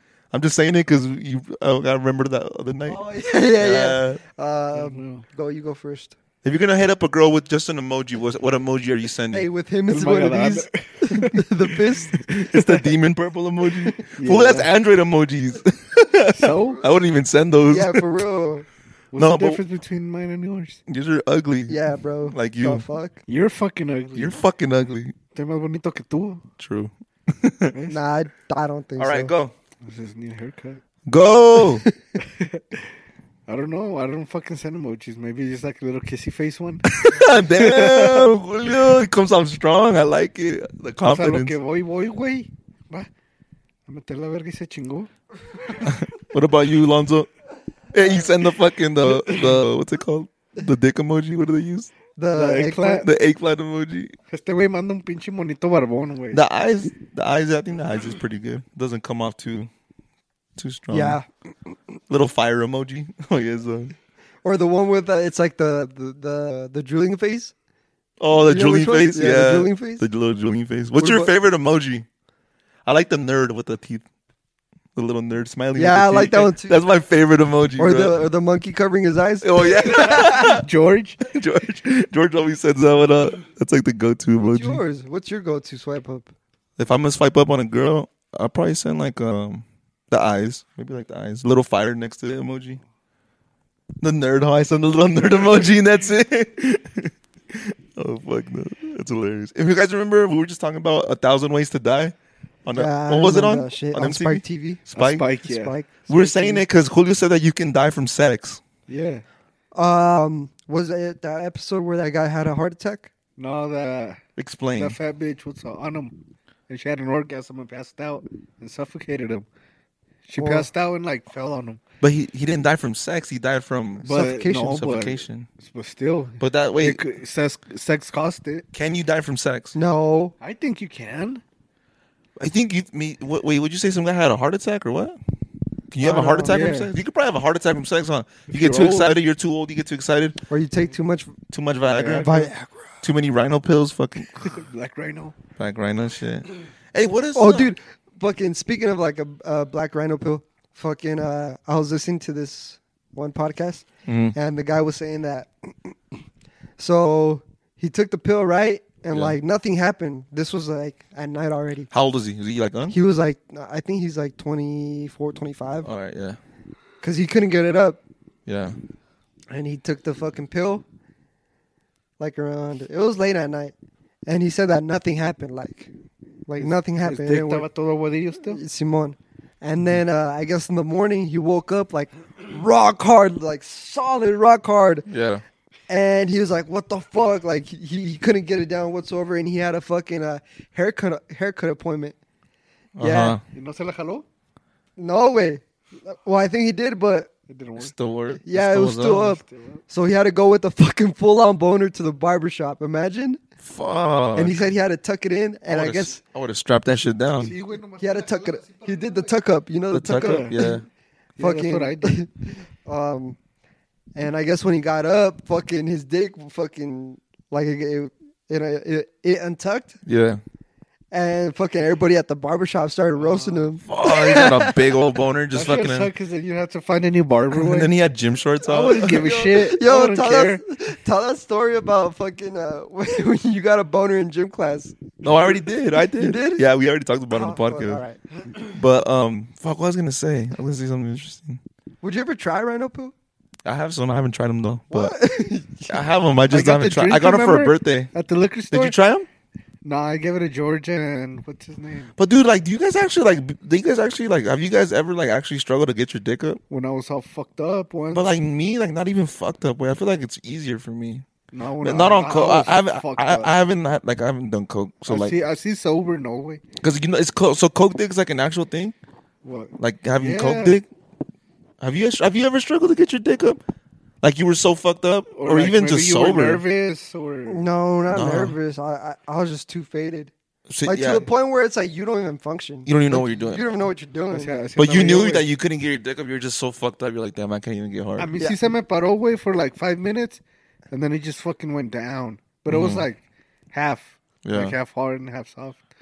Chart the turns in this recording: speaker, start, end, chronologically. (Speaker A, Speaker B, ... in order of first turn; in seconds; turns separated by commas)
Speaker A: 0.3-4.2, Speaker B: 2.9-6.2, Speaker C: 4.7-5.2, Speaker A: 6.4-9.5, Speaker B: 9.3-12.2, Speaker C: 9.9-12.9, Speaker A: 12.3-18.0, Speaker C: 14.2-14.7, Speaker C: 16.3-16.8, Speaker B: 17.7-18.7, Speaker C: 19.1-20.8, Speaker A: 19.1-19.6, Speaker A: 20.9-22.8, Speaker B: 21.7-23.2, Speaker C: 23.3-24.4, Speaker A: 24.1-25.1, Speaker C: 25.3-26.4, Speaker A: 26.6-27.8, Speaker C: 27.7-28.0, Speaker B: 27.9-29.3, Speaker A: 29.0-29.5, Speaker C: 29.8-30.8, Speaker A: 31.1-31.8, Speaker C: 32.2-32.9, Speaker C: 33.5-38.3, Speaker A: 36.9-41.6, Speaker C: 41.0-43.1, Speaker C: 43.9-45.1, Speaker A: 45.8-47.3, Speaker A: 47.9-51.9, Speaker C: 49.2-49.5, Speaker B: 52.1-53.0, Speaker C: 52.3-53.1, Speaker A: 53.0-54.1, Speaker C: 54.3-56.4, Speaker A: 56.3-59.7, Speaker A: 60.6-61.2, Speaker B: 60.9-61.2, Speaker A: 62.1-63.9, Speaker B: 64.4-67.5, Speaker A: 68.2-72.0, Speaker B: 68.5-70.0, Speaker B: 71.0-71.3, Speaker A: 72.8-74.0, Speaker A: 74.9-78.2, Speaker B: 75.7-76.8, Speaker B: 77.8-80.4, Speaker A: 79.4-80.7, Speaker C: 80.0-81.2, Speaker A: 81.2-84.8, Speaker B: 84.5-86.3, Speaker A: 86.8-92.8, Speaker A: 94.0-105.2, Speaker B: 102.7-104.8, Speaker C: 105.0-105.7, Speaker B: 105.4-106.6, Speaker A: 106.1-108.6, Speaker C: 108.9-109.2, Speaker B: 109.7-113.1, Speaker C: 113.4-114.2, Speaker A: 114.4-115.0, Speaker C: 114.8-116.2, Speaker C: 116.7-119.5, Speaker C: 120.3-121.8, Speaker B: 120.4-120.7, Speaker A: 122.0-125.5, Speaker C: 124.0-128.7, Speaker B: 124.0-124.8, Speaker A: 126.4-127.0, Speaker A: 128.7-129.8, Speaker B: 129.7-130.3, Speaker C: 130.4-131.4, Speaker A: 132.4-135.2, Speaker A: 135.9-140.4, Speaker C: 136.0-136.9, Speaker C: 138.5-139.2, Speaker B: 140.5-141.3, Speaker A: 141.5-142.4, Speaker C: 141.9-142.5, Speaker B: 142.2-142.8, Speaker A: 143.0-144.6, Speaker C: 144.4-145.3, Speaker A: 145.6-147.7, Speaker B: 147.3-155.9, Speaker A: 154.1-154.3, Speaker B: 156.8-161.9, Speaker A: 161.9-162.9, Speaker B: 162.9-165.9, Speaker A: 165.8-166.4, Speaker B: 167.0-168.0, Speaker A: 168.4-168.8, Speaker B: 169.5-170.8, Speaker B: 172.2-173.7, Speaker B: 174.3-175.9, Speaker B: 176.5-177.7, Speaker C: 176.5-178.6, Speaker B: 178.4-185.1, Speaker A: 185.1-185.4, Speaker B: 185.9-192.2, Speaker A: 192.9-193.4, Speaker B: 193.0-193.4, Speaker C: 193.5-194.2, Speaker B: 195.0-197.3, Speaker C: 197.5-197.9, Speaker A: 197.8-199.3, Speaker B: 198.4-203.4, Speaker C: 199.1-199.8, Speaker A: 203.6-204.7, Speaker B: 204.3-206.2, Speaker A: 205.7-207.5, Speaker C: 207.4-209.2, Speaker B: 208.0-210.8, Speaker A: 209.9-210.8, Speaker C: 210.2-210.7, Speaker C: 211.4-212.2, Speaker B: 211.4-213.4, Speaker B: 214.1-220.0, Speaker A: 220.0-220.4, Speaker B: 221.1-224.9, Speaker C: 223.2-223.7, Speaker A: 223.8-226.1, Speaker C: 225.5-227.9, Speaker A: 227.5-229.3, Speaker C: 228.6-230.6, Speaker B: 229.0-235.1, Speaker A: 235.2-238.0, Speaker B: 236.0-236.7, Speaker B: 237.3-238.2, Speaker A: 238.6-241.6, Speaker B: 242.0-243.1, Speaker A: 243.6-245.2, Speaker B: 244.9-246.0, Speaker A: 245.9-248.1, Speaker C: 246.5-248.9, Speaker A: 248.7-249.3, Speaker C: 249.8-252.1, Speaker A: 252.2-256.6, Speaker C: 256.7-258.3, Speaker A: 258.1-261.2, Speaker C: 261.5-263.5, Speaker A: 261.8-265.4, Speaker C: 265.1-266.6, Speaker A: 266.8-268.9, Speaker C: 269.4-270.8, Speaker A: 269.8-270.9, Speaker A: 271.8-273.6, Speaker A: 274.2-276.6, Speaker C: 275.3-277.6, Speaker B: 277.5-280.3, Speaker A: 278.1-278.6, Speaker A: 280.7-281.3, Speaker B: 280.8-284.6, Speaker A: 282.9-283.6, Speaker C: 284.3-285.5, Speaker A: 284.8-288.3, Speaker C: 288.2-293.2, Speaker A: 292.7-293.1, Speaker C: 293.7-295.8, Speaker A: 294.4-294.8